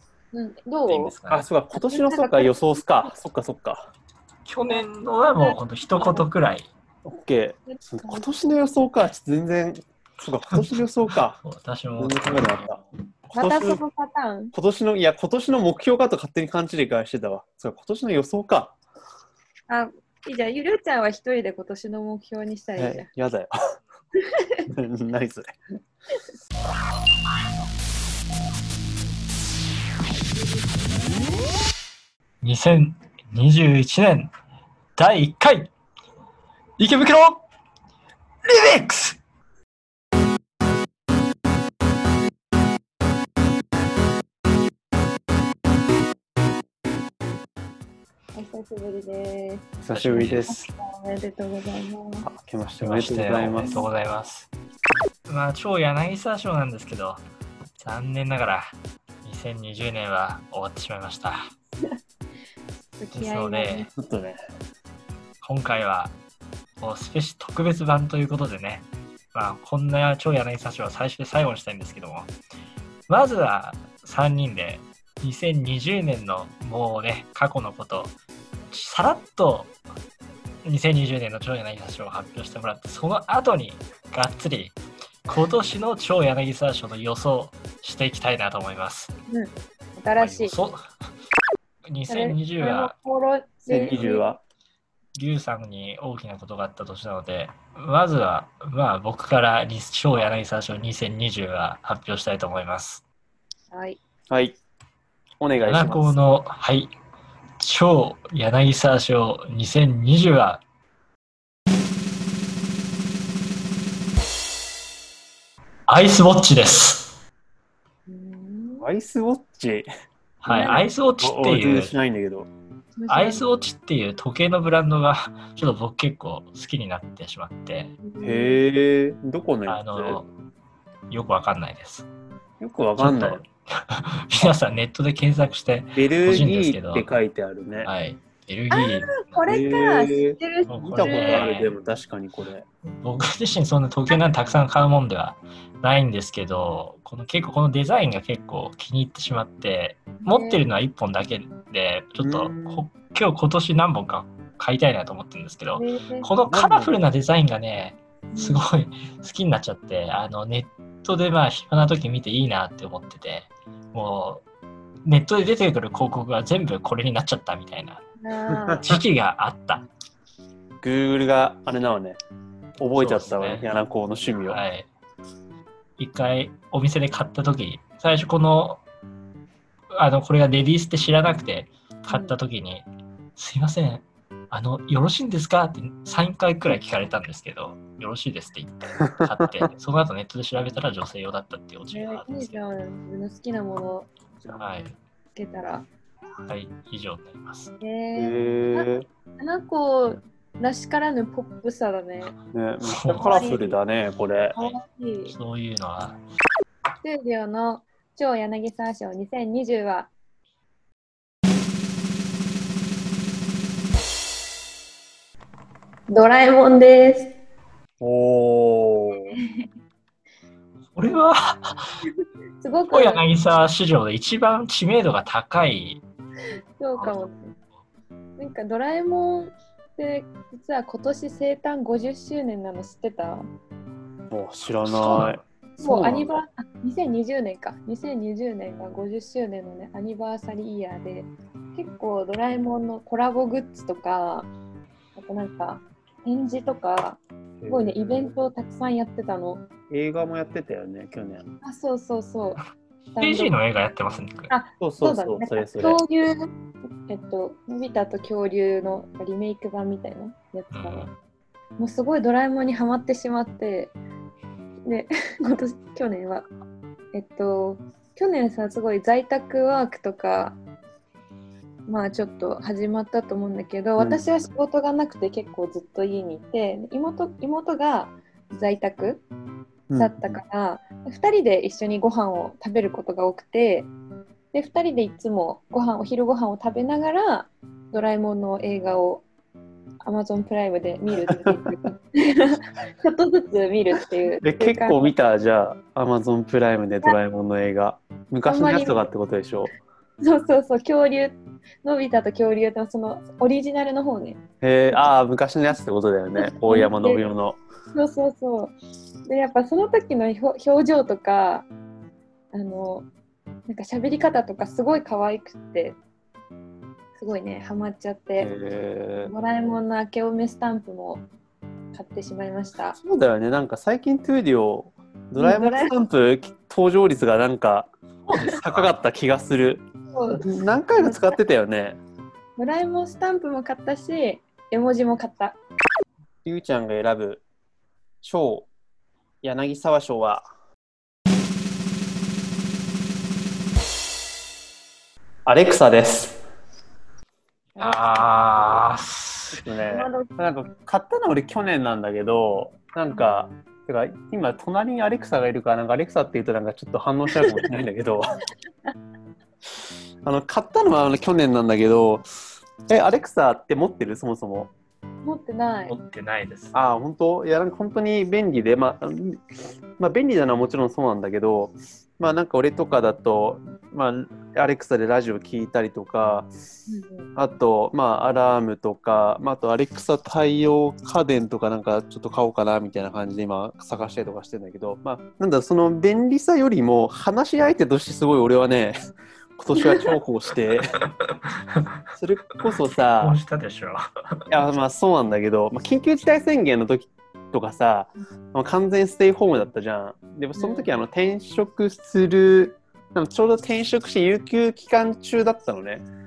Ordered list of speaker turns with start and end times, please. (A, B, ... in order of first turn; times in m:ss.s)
0:00.3-0:01.1 A
0:00.9-0:01.5 B
0:01.3-0:03.9 C
0:01.7-0:03.1 A
0:04.4-0:06.7 B
0:04.7-0:06.2 A
0:07.0-0:11.4 C
0:07.7-0:08.6 A
0:11.4-0:12.9 B
0:12.0-0:13.8 C
0:13.3-0:14.5 A
0:14.5-0:18.8 C
0:19.7-0:23.0 A
0:22.8-0:23.5 C
0:24.3-0:24.6 A
0:24.7-0:25.5 C
0:32.4-0:34.3 B
0:35.0-0:35.7 B
0:36.8-0:37.4 B
0:38.4-0:39.2 B
0:48.3-0:52.3 A
0:49.8-0:50.6 C
0:49.9-0:50.7 B
0:52.2-0:53.8 C
0:52.8-0:54.5 B
0:55.3-0:57.2 B
0:57.8-0:58.7 B
0:59.2-1:01.4 B
1:03.0-1:03.9 A
1:03.1-1:03.9 B
1:04.0-1:04.4 C
1:05.4-1:06.1 B
1:06.8-1:12.3 B
1:13.1-1:18.1 B
1:18.7-1:19.7 B
1:20.6-1:24.8 B
1:25.3-1:29.1 B
1:29.3-1:30.5 A
1:30.2-1:30.8 B
1:31.9-1:32.9 B
1:32.1-1:34.3 A
1:33.7-1:34.4 C
1:35.1-1:43.0 B
1:43.7-1:44.0 A
1:44.3-1:44.6 C
1:45.4-1:46.2 C
1:45.6-1:46.9 B
1:47.6-1:50.6 B
1:55.9-1:57.1 B
1:58.1-1:58.9 A
1:58.8-1:59.9 C
2:00.4-2:02.0 B
2:00.4-2:02.5 C
2:00.5-2:00.8 A
2:02.9-2:03.4 A
2:03.1-2:07.9 B
2:08.0-2:08.6 A
2:08.2-2:10.2 C
2:09.7-2:10.3 B
2:11.1-2:12.1 B
2:12.6-2:13.4 C
2:13.0-2:17.1 B
2:16.0-2:17.9 C
2:17.8-2:19.4 B
2:18.7-2:21.5 A
2:19.4-2:22.6 C
2:20.7-2:21.7 B
2:23.0-2:44.4 B
2:30.2-2:30.6 A
2:32.2-2:32.8 C
2:35.7-2:36.3 A
2:36.5-2:37.0 C
2:38.3-2:38.6 A
2:45.0-2:48.0 B
2:48.2-2:49.0 A
2:48.6-2:48.9 C
2:48.8-2:49.8 B
2:50.8-2:52.2 C
2:52.8-2:54.6 C
2:53.0-2:53.7 B
2:54.5-2:54.9 B
2:56.0-2:58.8 B
2:59.9-3:12.6 B
3:02.1-3:02.4 A
3:11.9-3:14.1 A
3:14.6-3:15.0 B
3:15.3-3:15.8 A
3:16.4-3:17.7 B
3:17.8-3:22.3 A
3:18.2-3:19.0 C
3:22.5-3:24.6 C
3:22.8-3:23.5 B
3:23.1-3:23.8 A
3:24.5-3:25.3 A
3:24.6-3:26.2 B
3:27.0-3:30.1 A
3:36.1-3:37.3 A
3:38.0-3:39.4 C
3:39.3-3:39.7 A
3:40.9-3:41.9 B
3:42.6-3:43.2 A
3:42.9-3:46.0 B
3:46.8-3:47.5 A
3:48.4-3:53.4 A
3:54.3-3:56.4 C
3:54.8-3:55.4 B
3:55.8-4:04.5 A
4:05.2-4:09.6 A
4:07.6-4:08.3 C
4:09.9-4:11.4 C
4:11.6-4:12.6 A
4:13.2-4:13.6 A
4:13.2-4:14.5 B
4:14.5-4:16.5 A
4:14.8-4:16.0 C
4:17.1-4:21.1 A
4:20.7-4:21.1 B
4:21.8-4:23.9 A
4:24.8-4:26.5 A
4:27.1-4:30.6 A
4:31.9-4:39.2 A
4:39.9-4:40.4 C
4:40.0-4:43.9 A
4:44.5-4:49.2 A
4:50.0-4:55.1 A
4:51.3-4:51.6 C
4:54.4-4:59.7 C
4:58.4-4:59.0 A
5:00.2-5:05.1 A
5:04.6-5:07.6 C
5:06.4-5:07.2 A
5:07.9-5:08.7 A
5:09.2-5:11.7 A
5:12.5-5:13.1 A
5:13.7-5:16.0 A
5:17.2-5:18.5 A
5:18.4-5:19.3 C
5:19.2-5:21.2 A
5:21.9-5:23.0 A
5:23.0-5:29.8 C
5:25.4-5:25.9 A
5:28.3-5:29.0 B
5:30.1-5:31.3 A
5:30.4-5:32.0 C
5:32.6-5:35.6 A
5:36.4-5:37.4 C
5:38.2-5:38.7 C
5:39.4-5:40.4 C
5:45.4-5:46.4 C
5:47.8-5:48.7 A
5:47.8-5:49.6 B
5:49.5-5:58.3 C
5:49.9-5:50.3 A
6:00.2-6:02.2 C
6:02.9-6:04.7 C
6:05.2-6:05.9 A
6:05.9-6:06.7 B
6:06.7-6:16.5 C
6:16.9-6:17.3 A
6:17.4-6:29.0 C
6:29.6-6:30.8 C
6:31.2-6:31.9 B
6:32.1-6:33.4 C
6:33.2-6:34.5 B
6:34.5-6:46.0 C
6:40.6-6:40.9 A